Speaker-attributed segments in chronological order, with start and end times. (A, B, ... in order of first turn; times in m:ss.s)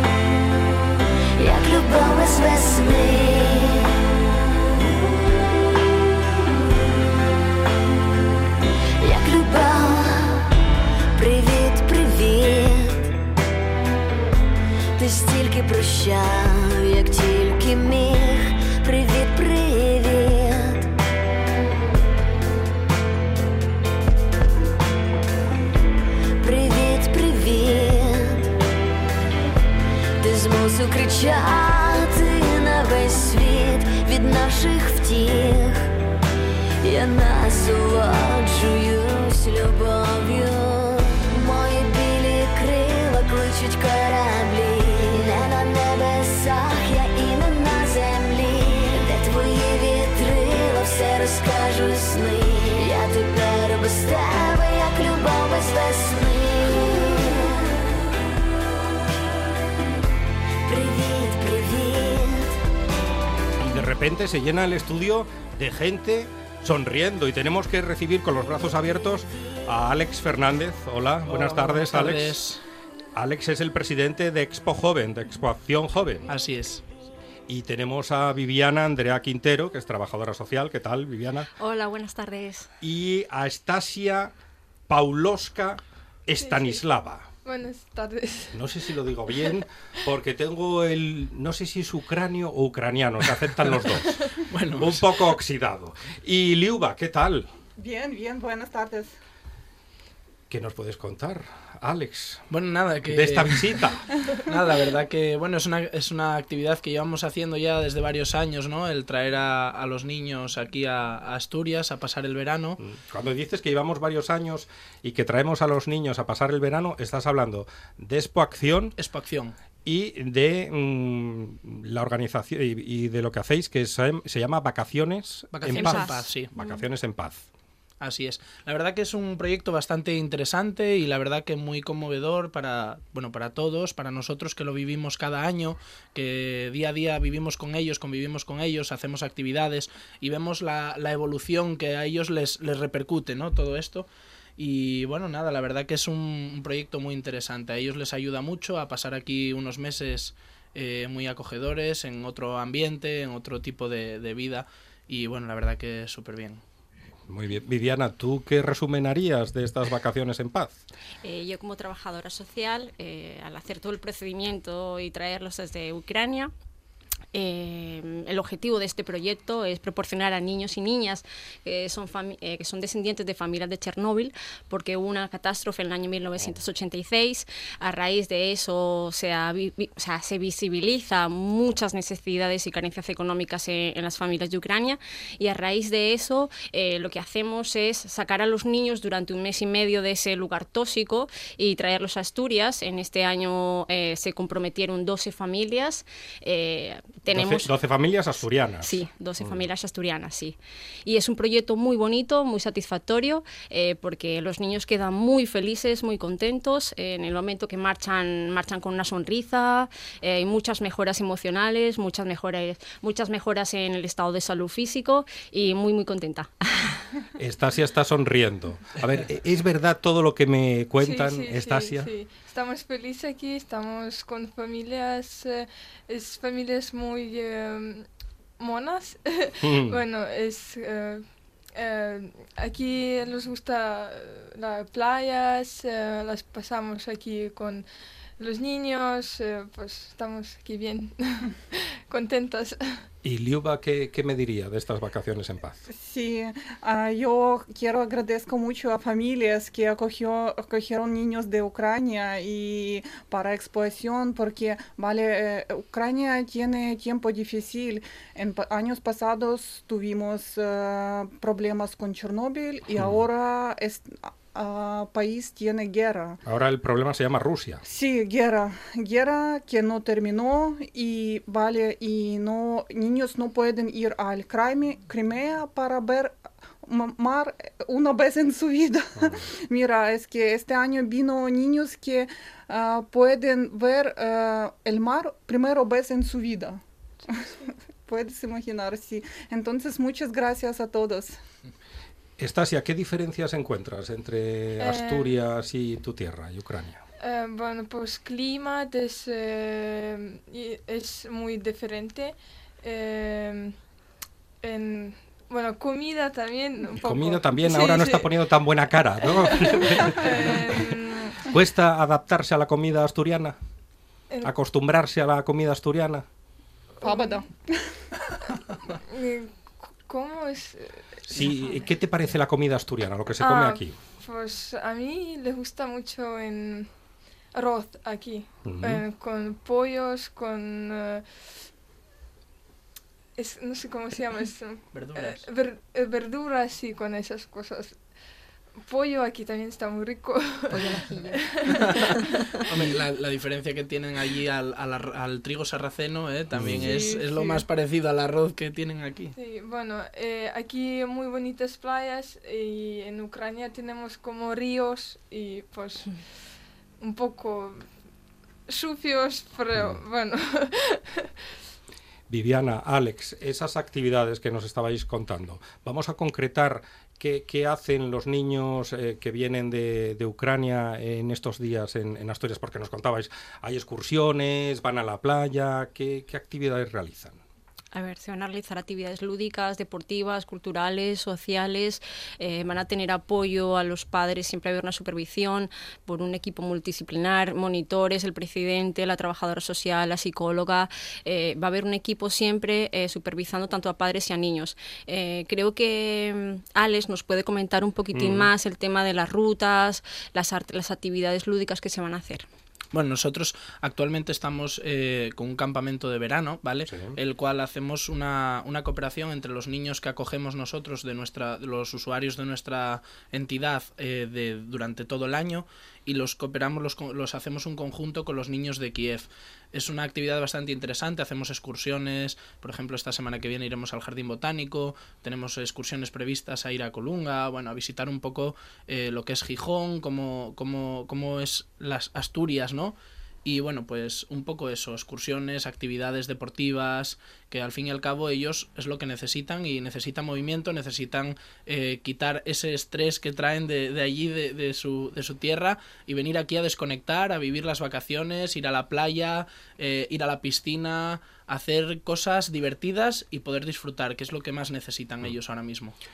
0:01.4-0:03.9 A
0:09.0-0:10.4 A
0:11.1-0:13.1 A
0:15.0-0:20.9 A
0:26.4-0:28.5 A
0:30.2-0:35.9 A
0:36.8-0:57.9 A
1:00.6-1:02.6 A
1:03.6-1:12.4 B
1:11.2-1:12.6 C
1:13.1-1:16.2 B
1:16.3-1:16.8 C
1:17.5-1:21.5 B
1:21.6-1:22.7 D
1:22.8-1:24.3 B
1:24.9-1:27.3 B
1:26.4-1:26.8 E
1:27.4-1:28.8 E
1:28.5-1:34.2 B
1:34.5-1:35.2 C
1:34.8-1:37.5 B
1:37.8-1:39.2 F
1:40.5-1:42.4 B
1:42.5-1:43.9 C
1:43.0-1:44.0 B
1:44.5-1:52.8 C
1:52.8-1:58.9 B
1:59.0-1:59.6 C
1:59.8-2:07.5 B
2:05.5-2:06.5 C
2:05.6-2:06.8 D
2:08.0-2:36.6 C
2:37.3-2:40.8 B
2:41.2-2:46.5 D
2:47.3-3:17.7 D
3:17.3-3:19.6 B
3:18.8-3:37.0 D
3:37.4-3:42.1 B
3:41.0-3:57.8 E
3:49.6-3:50.0 B
3:58.4-4:03.0 E
4:03.2-4:05.8 B
4:05.9-4:26.4 F
4:26.4-4:27.8 B
4:27.8-4:51.4 F
4:39.2-4:39.4 B
4:52.4-4:57.0 B
4:54.8-4:55.4 E
4:57.2-5:03.8 E
5:04.6-5:08.4 E
5:07.0-5:13.6 B
5:09.2-5:11.4 E
5:14.4-5:16.2 B
5:17.0-5:17.5 E
5:17.0-5:17.9 F
5:19.1-5:21.6 E
5:21.3-5:24.0 B
5:23.4-5:26.9 E
5:27.5-5:31.2 E
5:28.6-5:29.0 B
5:33.4-5:38.1 E
5:34.9-5:35.4 C
5:38.8-5:42.0 E
5:40.7-5:41.4 D
5:41.8-5:42.1 C
5:42.7-5:49.3 C
5:46.5-5:46.9 B
5:46.8-5:47.6 F
5:49.3-5:56.2 E
5:57.0-5:57.9 E
5:58.7-6:01.3 E
5:59.7-6:00.0 B
6:02.3-6:17.4 B
6:17.9-6:42.5 D
6:38.1-6:38.5 B
6:42.9-7:36.0 C
6:46.9-6:47.2 B